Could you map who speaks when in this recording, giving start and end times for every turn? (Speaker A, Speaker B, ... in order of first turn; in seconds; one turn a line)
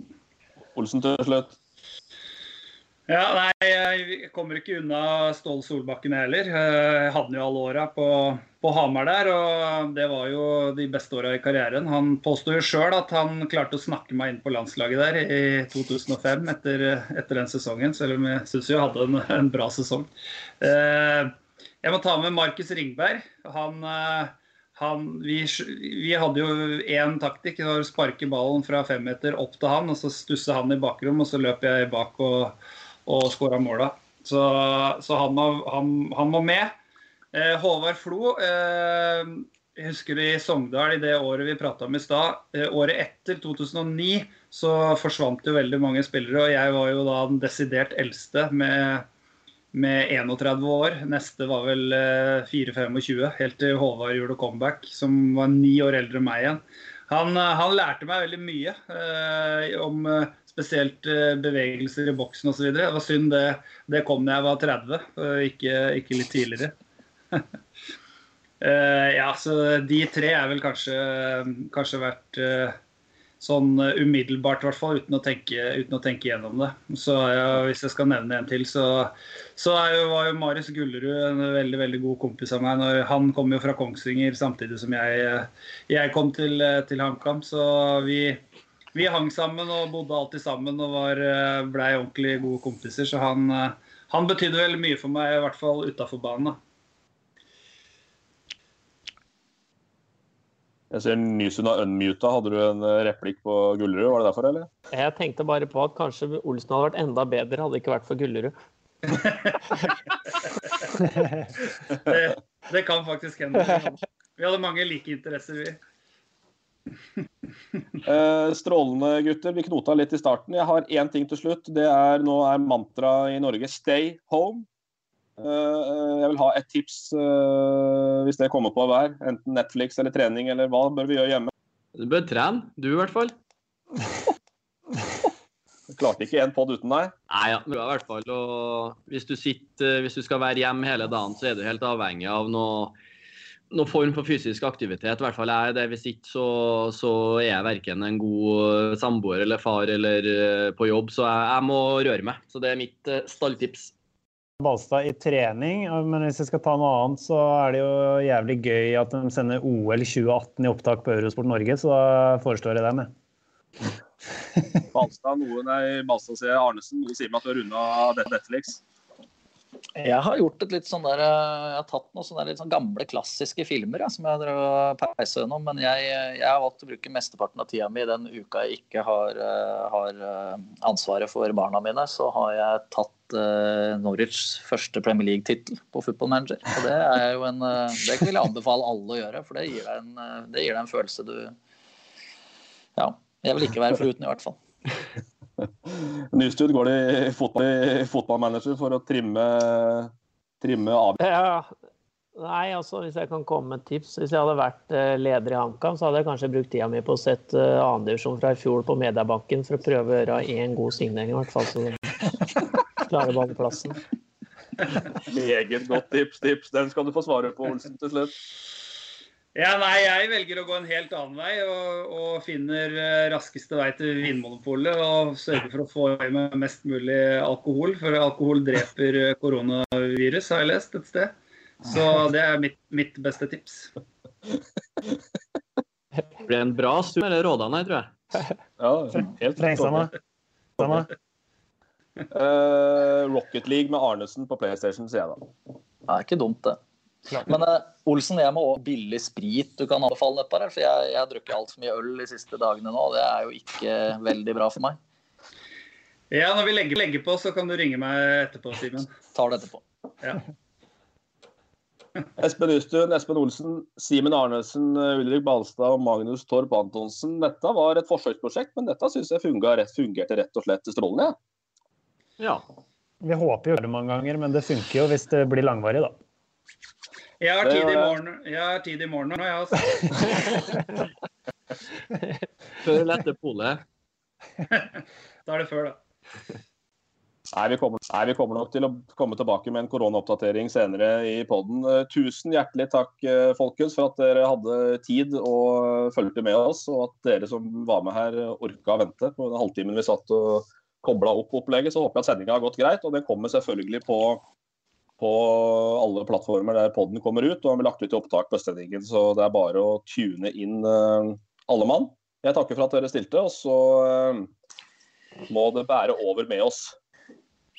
Speaker A: 0.8-1.6
Speaker B: 3.1-20.1
Speaker B: 20.6-36.7
Speaker B: 37.3-49.1
Speaker B: 49.7-66.8
Speaker B: 68.6-72.8
Speaker B: 73.4-88.4
Speaker B: 88.9-96.6
Speaker A: 100.9-104.7
Speaker C: 104.9-108.5
Speaker B: 109.1-109.6
Speaker B: 112.0-115.8
Speaker A: 118.0-124.7
Speaker A: 125.4-131.5
Speaker D: 132.0-133.3
Speaker A: 135.9-137.1
Speaker D: 137.3-142.9
Speaker D: 143.7-153.9
Speaker E: 154.6-163.1
Speaker A: 164.9-168.8
Speaker F: 170.0-191.6
Speaker F: 193.0-194.6
Speaker A: 195.9-201.2
Speaker C: 201.2-201.7
Speaker C: 202.4-212.2
Speaker C: 213.0-214.0
Speaker A: 215.2-218.3
Speaker B: 219.6-233.9
Speaker D: 236.4-238.1
Speaker A: 238.8-240.1
Speaker E: 239.6-240.1
Speaker E: 240.8-241.1
Speaker A: 240.8-241.1
Speaker A: 242.3-245.5
Speaker F: 246.1-246.8
Speaker F: 247.4-255.0
Speaker B: 256.3-259.1
Speaker F: 259.3-259.8
Speaker A: 262.4-271.4
Speaker E: 273.2-276.2
Speaker B: 277.4-280.5
Speaker A: 277.6-278.1
Speaker D: 282.8-283.8
Speaker B: 284.7-286.0
Speaker A: 287.5-304.4
Speaker A: 305.2-314.5
Speaker A: 315.5-317.0